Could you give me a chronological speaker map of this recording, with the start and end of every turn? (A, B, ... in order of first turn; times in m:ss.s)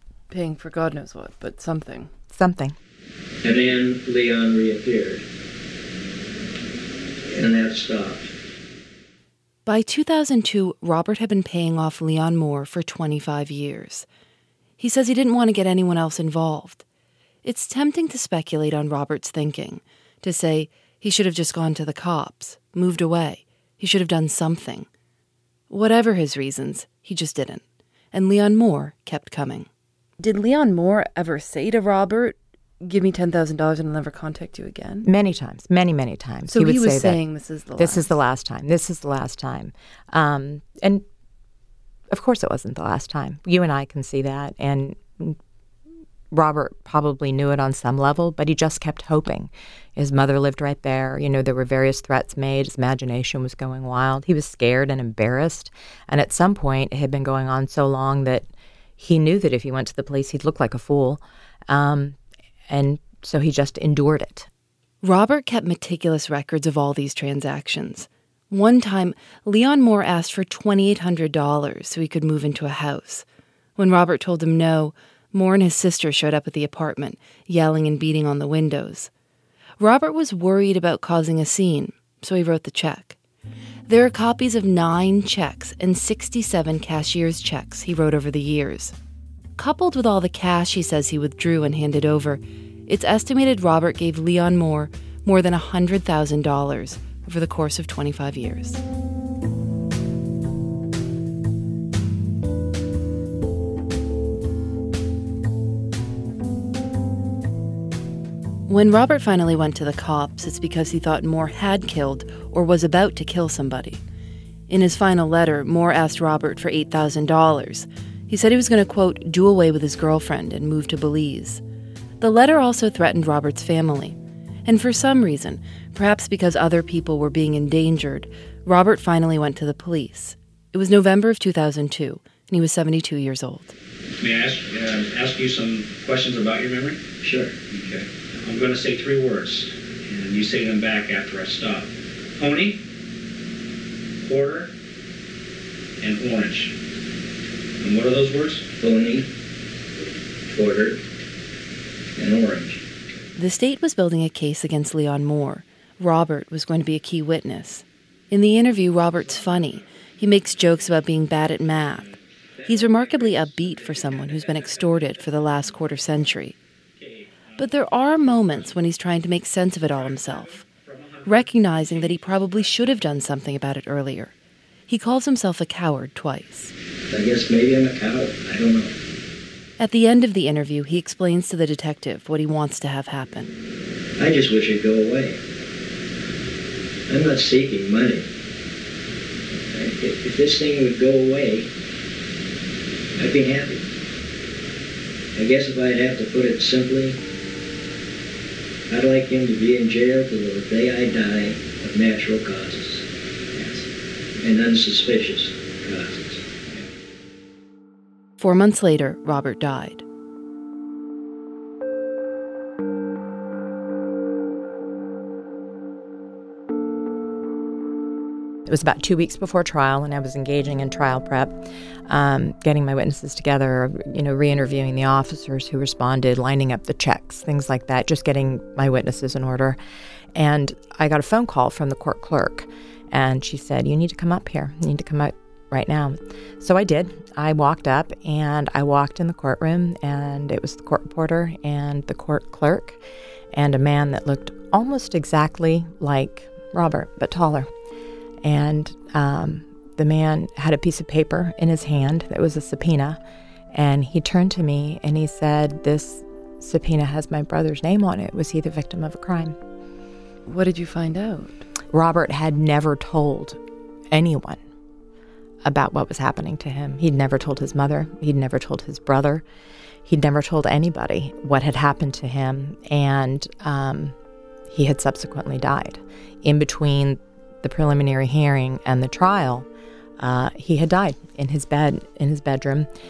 0:00.3-0:02.1 A
0:02.3-0:02.8 B
0:03.4-0:05.2 C
0:07.3-0:08.3 C
0:09.7-0:14.1 A
0:14.8-0:16.8 A
0:17.4-0:24.9 A
0:25.7-0:29.7 A
0:30.2-0:35.1 A
0:35.0-0:37.2 B
0:36.5-0:38.2 A
0:37.8-0:41.0 B
0:42.1-0:45.4 B
0:46.3-1:02.2 B
1:02.7-1:04.5 B
1:05.0-1:13.2 A
1:13.8-1:19.1 A
1:19.8-1:23.2 A
1:23.9-1:29.0 A
1:29.6-1:38.8 A
1:48.7-1:54.0 A
1:54.7-2:01.6 A
2:02.2-2:13.7 A
2:14.2-2:17.0 D
2:17.2-2:17.6 C
2:17.7-2:21.9 D
2:22.4-2:22.8 D
2:24.3-2:24.7 D
2:26.0-2:26.7 D
2:27.8-2:28.7 D
2:28.7-2:29.3 C
2:30.5-2:31.0 C
2:32.2-2:32.8 C
2:33.4-2:46.6 A
2:47.6-2:50.7 A
2:50.9-2:51.2 D
2:51.2-2:54.3 A
2:54.9-2:56.7 A
2:57.1-2:58.9 C
2:59.8-3:03.5 A
3:04.2-3:05.4 C
3:07.1-3:08.3 C
3:09.7-3:11.7 C
3:13.2-3:13.8 C
3:15.4-3:17.2 C
3:18.9-3:23.1 C
3:24.4-3:26.5 C
3:28.4-3:30.0 A
3:38.7-3:41.6 B
3:42.1-3:49.8 B
3:50.4-4:03.0 B
4:03.5-4:07.7 B
4:08.4-4:13.2 B
4:13.7-4:19.6 B
4:20.5-4:21.6 A
4:21.9-4:23.6 B
4:24.1-4:24.6 B
4:25.6-4:29.4 B
4:30.0-4:34.2 B
4:34.7-4:39.7 B
4:40.2-4:42.9 B